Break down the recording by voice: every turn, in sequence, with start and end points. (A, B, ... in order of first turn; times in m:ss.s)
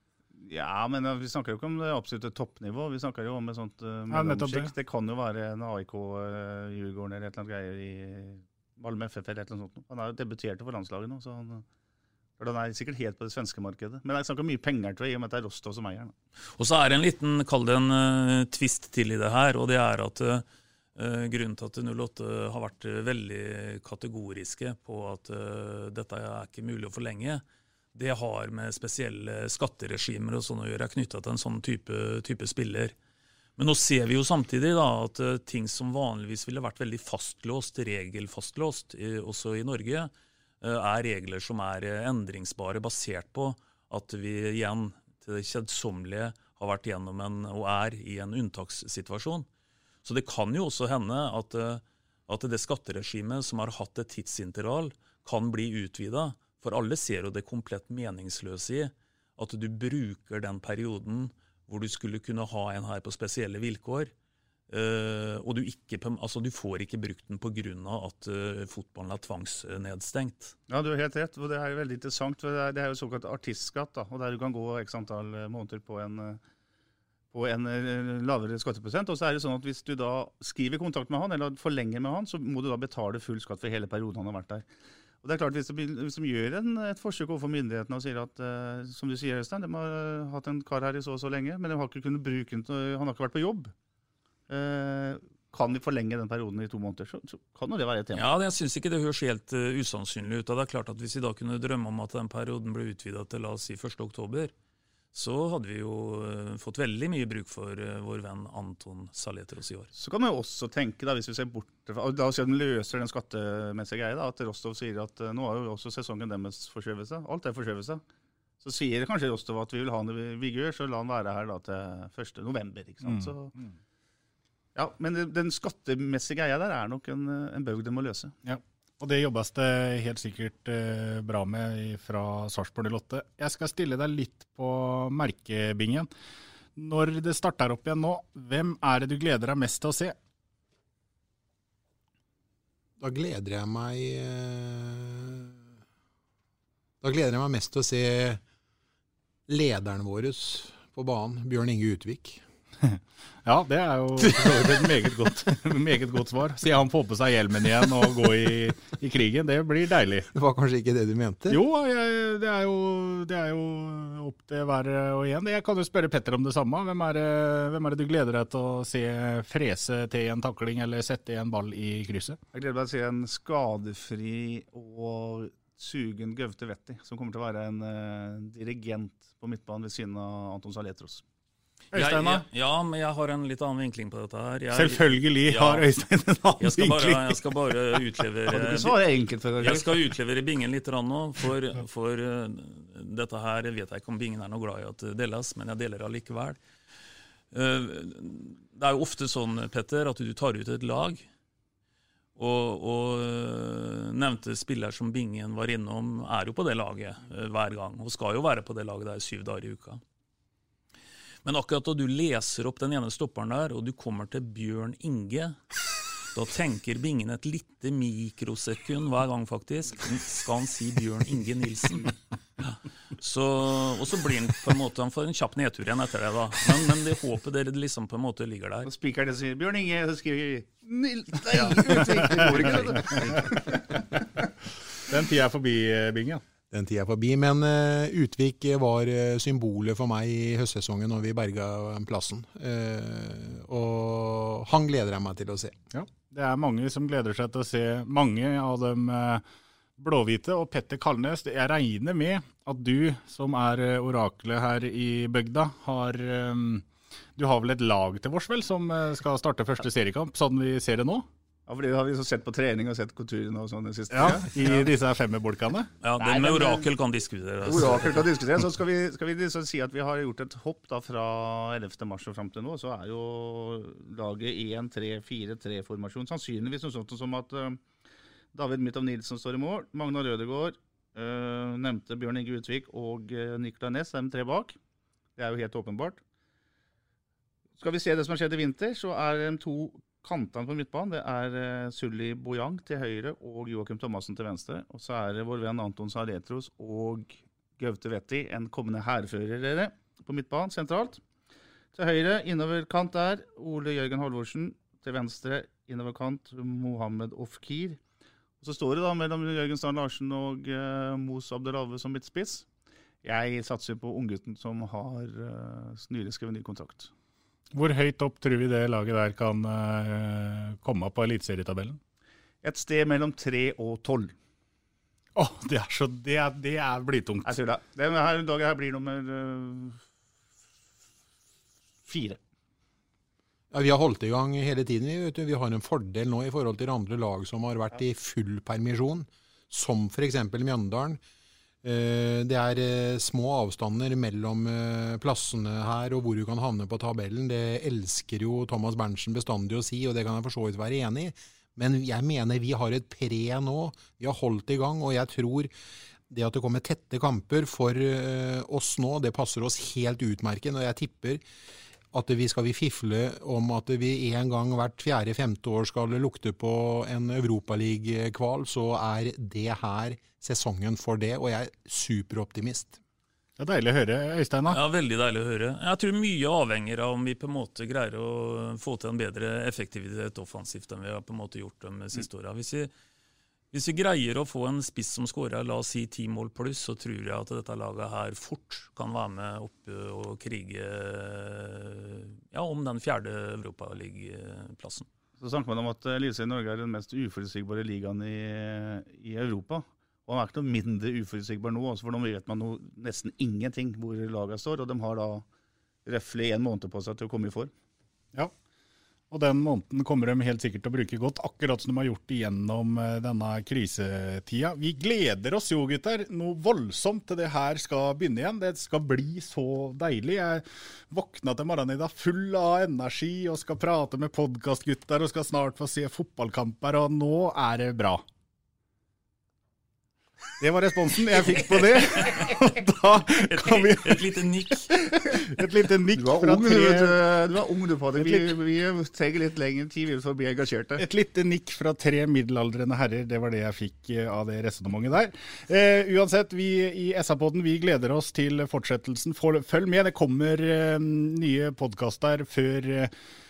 0:00.4-0:11.6 A
0:04.1-0:04.7 B
0:12.4-0:16.1 A
0:16.6-0:20.4 C
0:21.0-0:27.4 C
0:27.9-0:32.9 C
0:33.6-0:40.1 C
0:40.6-0:49.5 C
0:50.0-1:04.1 C
1:04.7-1:10.5 C
1:10.7-1:16.4 A
1:17.3-1:24.6 A
1:25.2-1:33.7 A
1:34.5-1:38.3 A
1:38.1-1:44.5 C
1:45.1-1:49.9 C
1:49.9-1:58.0 A
1:58.6-2:03.5 A
2:03.0-2:03.7 B
2:04.8-2:08.3 A
2:08.4-2:16.1 B
2:16.8-2:20.1 B
2:23.0-2:25.6 D
2:27.0-2:28.4 D
2:29.5-2:32.4 D
2:32.8-2:40.3 B
2:34.4-2:34.8 D
2:40.3-2:41.6 D
2:41.5-2:52.4 B
2:52.5-3:01.2 A
3:01.9-3:02.4 B
3:01.9-3:05.9 C
3:04.7-3:07.4 B
3:06.6-3:09.0 C
3:08.5-3:09.9 A
3:09.6-3:16.6 C
3:17.5-3:21.2 C
3:22.4-3:30.0 C
3:31.4-3:35.6 C
3:36.3-3:48.9 C
3:48.8-3:54.0 A
3:51.5-3:54.0 B
3:55.0-3:56.4 B
3:56.7-4:05.7 D
4:05.9-4:09.4 B
4:10.0-4:21.2 B
4:21.7-4:24.9 A
4:24.1-4:25.9 B
4:26.0-4:28.2 C
4:26.2-4:26.9 A
4:27.6-4:37.8 A
4:38.5-4:44.8 A
4:45.4-4:46.2 A
4:47.8-5:01.2 A
5:01.9-5:08.0 A
5:08.6-5:12.6 A
5:13.2-5:17.1 A
5:17.7-5:22.0 B
5:22.6-5:24.3 A
5:25.4-5:27.6 B
5:27.4-5:30.0 A
5:32.0-5:32.4 A
5:33.7-5:41.2 D
5:41.8-5:55.7 D
5:56.3-6:01.4 D
6:02.1-6:13.0 D
6:13.6-6:14.8 B
6:14.7-6:22.9 C
6:23.7-6:35.1 C
6:35.4-6:45.4 A
6:46.0-6:47.7 A
6:49.3-7:08.2 B
7:10.6-7:17.2 B
7:11.7-7:12.5 C
7:13.4-7:14.9 C
7:16.1-7:21.0 A
7:18.2-7:18.5 B
7:21.0-7:33.1 B